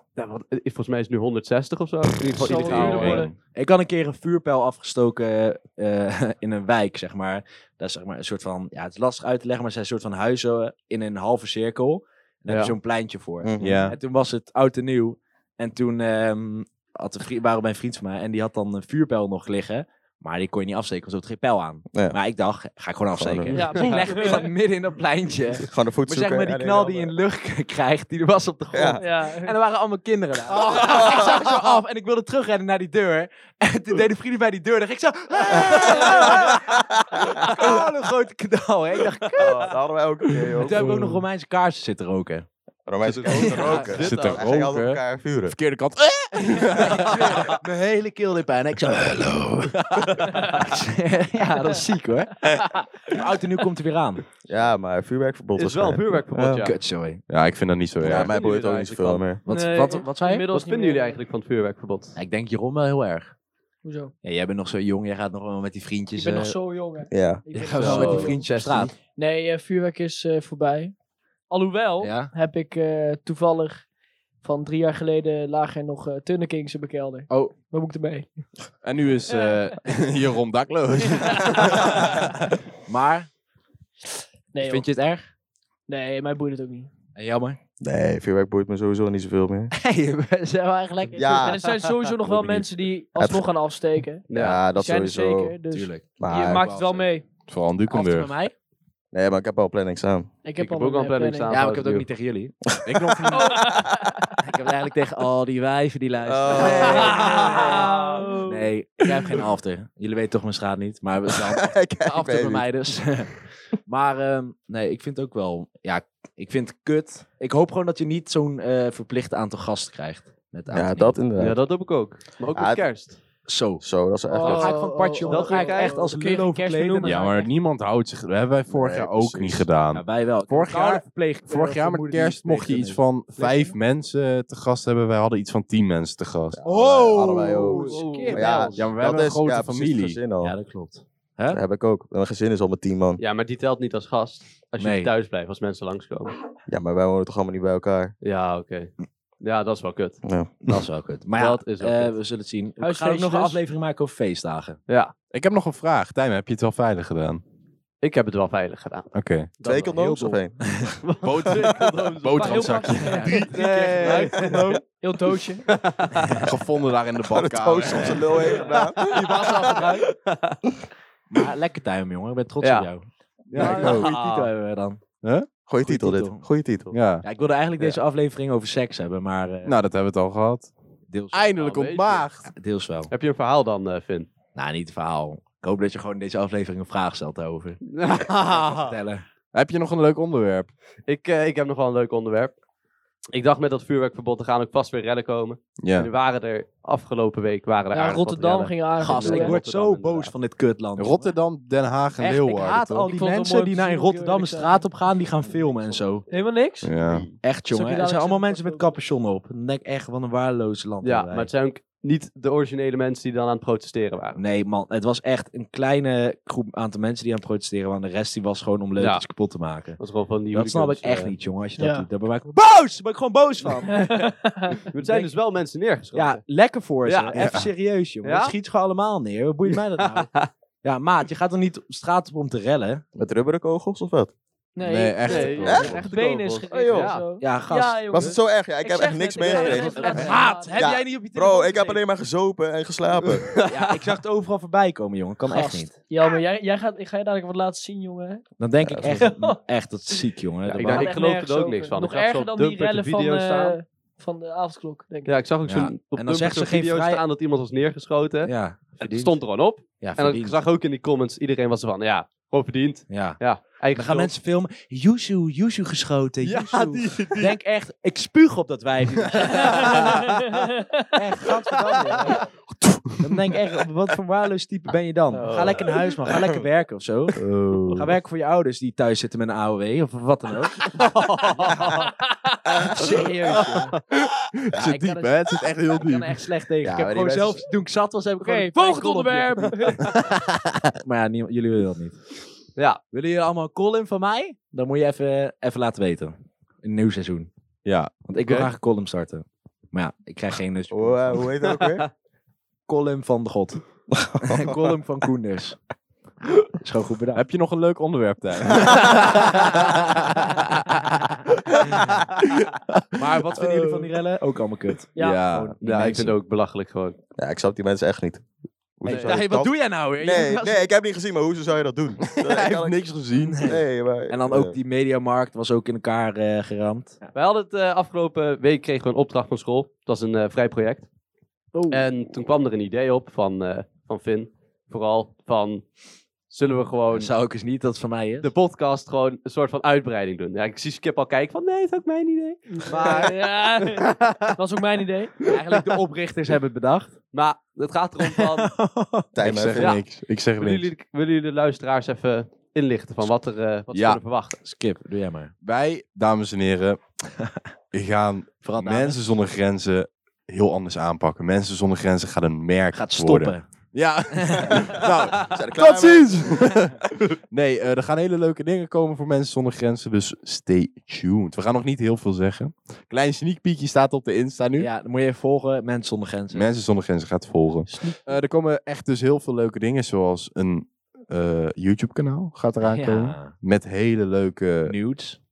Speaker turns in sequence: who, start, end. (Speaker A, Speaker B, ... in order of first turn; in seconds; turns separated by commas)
Speaker A: 0.1-3.3, Speaker B: 2.4-3.3, Speaker C: 2.4-39.6, Speaker D: 2.5-3.3, Speaker A: 12.5-12.7, Speaker E: 13.4-13.9, Speaker D: 13.6-14.0, Speaker E: 23.1-23.7, Speaker B: 23.5-24.4, Speaker E: 25.6-27.1, Speaker E: 28.7-29.0, Speaker B: 29.0-29.6, Speaker E: 30.7-31.5, Speaker B: 30.9-31.2, Speaker E: 35.8-36.1, Speaker E: 36.8-37.7, Speaker E: 39.4-40.9, Speaker D: 40.5-41.2, Speaker C: 40.6-42.5, Speaker E: 42.9-45.5, Speaker A: 43.0-44.5, Speaker C: 43.3-44.1, Speaker D: 43.7-47.4, Speaker C: 46.4-54.2, Speaker E: 54.5-56.6, Speaker A: 55.5-56.8, Speaker C: 56.6-57.2, Speaker D: 57.3-58.3, Speaker E: 58.0-59.4, Speaker A: 58.1-59.3, Speaker C: 59.4-60.5, Speaker B: 59.5-61.2, Speaker A: 60.5-62.2, Speaker C: 62.1-63.3, Speaker B: 63.8-64.1, Speaker C: 64.2-66.5, Speaker B: 66.2-68.4, Speaker E: 67.1-67.4, Speaker C: 67.5-68.9, Speaker A: 67.8-68.9, Speaker B: 69.2-70.9, Speaker B: 71.5-73.8, Speaker C: 72.0-72.3, Speaker B: 74.4-78.4, Speaker C: 77.3-77.5, Speaker D: 78.8-82.2, Speaker B: 79.3-79.5, Speaker B: 81.0-82.1, Speaker C: 82.8-83.3, Speaker B: 84.5-84.8, Speaker C: 84.6-85.3, Speaker B: 85.9-86.9, Speaker C: 87.1-87.6, Speaker E: 87.8-89.7, Speaker C: 89.7-91.6, Speaker B: 91.2-97.2, Speaker E: 91.2-91.6, Speaker C: 92.2-92.6, Speaker E: 93.2-93.4, Speaker A: 94.3-94.6, Speaker E: 94.3-95.6, Speaker C: 95.7-97.1, Speaker E: 96.2-96.7, Speaker D: 97.5-98.3, Speaker C: 97.9-98.5, Speaker E: 99.1-100.3, Speaker B: 100.4-101.5, Speaker A: 100.6-102.1, Speaker C: 101.5-102.5, Speaker E: 102.7-104.1, Speaker D: 102.8-103.7, Speaker B: 103.3-104.4, Speaker C: 104.4-107.9, Speaker E: 106.2-107.9, Speaker B: 106.5-108.7, Speaker A: 107.0-107.9, Speaker C: 108.4-121.2, Speaker E: 111.3-112.6, Speaker E: 120.7-121.6, Speaker A: 121.3-123.2, Speaker E: 122.5-122.8, Speaker C: 123.4-123.8, Speaker E: 123.8-124.9, Speaker B: 124.3-127.5, Speaker C: 124.3-127.3, Speaker A: 125.2-126.1, Speaker D: 127.0-136.6, Speaker E: 128.7-129.6, Speaker C: 129.3-133.8, Speaker E: 136.5-140.5, Speaker C: 136.6-138.8, Speaker A: 137.9-138.7, Speaker B: 137.9-138.7, Speaker D: 138.7-140.2, Speaker C: 140.4-141.6, Speaker E: 141.5-143.2, Speaker A: 143.2-146.3, Speaker C: 144.8-145.1, Speaker E: 146.7-148.1, Speaker A: 148.2-150.2, Speaker E: 150.2-150.5, Speaker C: 150.6-154.8, Speaker A: 151.3-152.1, Speaker B: 152.8-153.6, Speaker A: 154.9-155.1, Speaker D: 155.3-157.4, Speaker A: 158.0-160.0, Speaker D: 159.1-159.5, Speaker E: 159.6-160.9, Speaker C: 159.9-160.9, Speaker A: 161.0-162.8, Speaker D: 161.2-163.5, Speaker B: 162.3-165.7, Speaker C: 162.9-164.6, Speaker A: 163.3-164.8, Speaker E: 164.0-164.8, Speaker A: 165.6-166.5, Speaker D: 166.4-168.3, Speaker E: 167.3-169.7, Speaker C: 168.0-170.1, Speaker B: 168.4-168.7, Speaker A: 168.5-170.6, Speaker C: 171.3-175.0, Speaker A: 172.6-172.9, Speaker D: 173.5-174.1, Speaker A: 173.5-174.5, Speaker D: 175.2-175.5, Speaker E: 175.7-176.9, Speaker C: 175.8-176.4, Speaker D: 176.9-177.2, Speaker C: 177.2-179.7, Speaker D: 179.6-180.7, Speaker C: 181.1-181.7, Speaker D: 181.3-182.5, Speaker A: 181.6-182.3, Speaker C: 182.5-183.1, Speaker A: 183.1-184.3, Speaker C: 184.5-189.2, Speaker A: 187.8-188.9, Speaker D: 189.5-190.7, Speaker A: 191.1-192.5, Speaker A: 193.3-200.3, Speaker D: 195.8-196.1, Speaker B: 197.9-199.6, Speaker C: 199.0-201.3, Speaker D: 201.0-203.1, Speaker C: 202.2-206.3, Speaker B: 203.1-204.8, Speaker B: 206.3-206.9, Speaker D: 206.8-207.3, Speaker C: 207.4-211.5, Speaker B: 207.7-208.9, Speaker A: 211.0-214.4, Speaker C: 214.3-220.0, Speaker A: 219.0-219.2, Speaker A: 220.0-221.3, Speaker C: 220.5-224.2, Speaker B: 221.8-222.1, Speaker B: 223.9-224.8, Speaker A: 224.9-226.4, Speaker C: 225.0-225.3, Speaker C: 226.1-230.3, Speaker A: 227.1-227.3, Speaker D: 227.3-227.7, Speaker A: 228.2-228.5, Speaker A: 229.7-230.5, Speaker C: 230.8-233.0, Speaker E: 233.1-234.3, Speaker B: 234.8-241.0, Speaker D: 234.8-236.0, Speaker A: 235.2-237.2, Speaker E: 235.6-236.0, Speaker E: 236.7-237.1, Speaker C: 237.4-238.3, Speaker E: 238.1-243.5, Speaker C: 239.4-242.0, Speaker A: 243.3-244.1, Speaker C: 243.7-245.9, Speaker B: 245.4-248.4, Speaker C: 248.6-251.1, Speaker E: 248.8-249.3, Speaker B: 249.1-249.6, Speaker A: 250.7-253.8, Speaker B: 250.8-255.3, Speaker A: 255.2-264.3, Speaker C: 255.7-257.2, Speaker C: 258.4-259.4, Speaker C: 260.0-260.6, Speaker C: 263.1-270.3, Speaker A: 266.4-267.6, Speaker A: 269.6-270.5, Speaker B: 269.9-270.5, Speaker C: 271.1-272.4, Speaker A: 271.9-272.4, Speaker D: 272.8-273.4, Speaker C: 273.2-280.9, Speaker A: 275.3-276.4, Speaker D: 277.4-278.1, Speaker A: 280.9-282.1, Speaker B: 282.5-283.7, Speaker C: 282.9-283.9, Speaker A: 283.5-284.0, Speaker D: 284.1-286.4, Speaker C: 284.8-285.4, Speaker C: 285.9-290.1, Speaker E: 286.8-287.6, Speaker B: 288.4-290.0, Speaker C: 291.0-292.2, Speaker C: 293.1-297.5, Speaker D: 297.8-298.1, Speaker C: 298.2-301.5, Speaker E: 300.9-302.1, Speaker A: 301.6-302.1, Speaker C: 302.9-303.8, Speaker E: 304.1-304.9, Speaker C: 304.4-305.8, Speaker C: 306.7-307.4, Speaker D: 307.3-314.1, Speaker C: 309.3-309.9, Speaker C: 313.1-316.3, Speaker B: 315.1-315.4, Speaker D: 315.2-316.2, Speaker A: 315.8-317.1, Speaker E: 317.4-318.4, Speaker E: 319.0-323.1, Speaker C: 319.0-320.9, Speaker A: 319.1-319.4, Speaker D: 322.2-323.8, Speaker C: 323.4-327.2, Speaker E: 323.6-324.8, Speaker A: 327.3-331.1, Speaker B: 331.7-332.0, Speaker A: 331.9-335.9, Speaker A: 336.5-337.3, Speaker C: 337.1-338.5, Speaker A: 338.4-343.3, Speaker B: 342.7-345.4, Speaker C: 342.8-343.4, Speaker A: 343.8-344.5, Speaker C: 345.4-347.1, Speaker A: 347.3-348.7, Speaker C: 348.2-349.3, Speaker E: 349.3-350.0, Speaker D: 349.4-350.9, Speaker A: 349.8-350.0, Speaker A: 350.6-354.6, Speaker D: 353.9-354.2, Speaker C: 354.6-355.5, Speaker D: 355.6-357.0, Speaker C: 357.4-357.7, Speaker D: 357.9-374.9, Speaker C: 358.6-359.2, Speaker C: 362.9-363.7, Speaker C: 364.3-364.8, Speaker E: 364.9-366.6, Speaker C: 374.8-376.7, Speaker D: 376.5-384.9, Speaker C: 377.9-378.1, Speaker C: 382.8-383.5, Speaker C: 384.8-385.4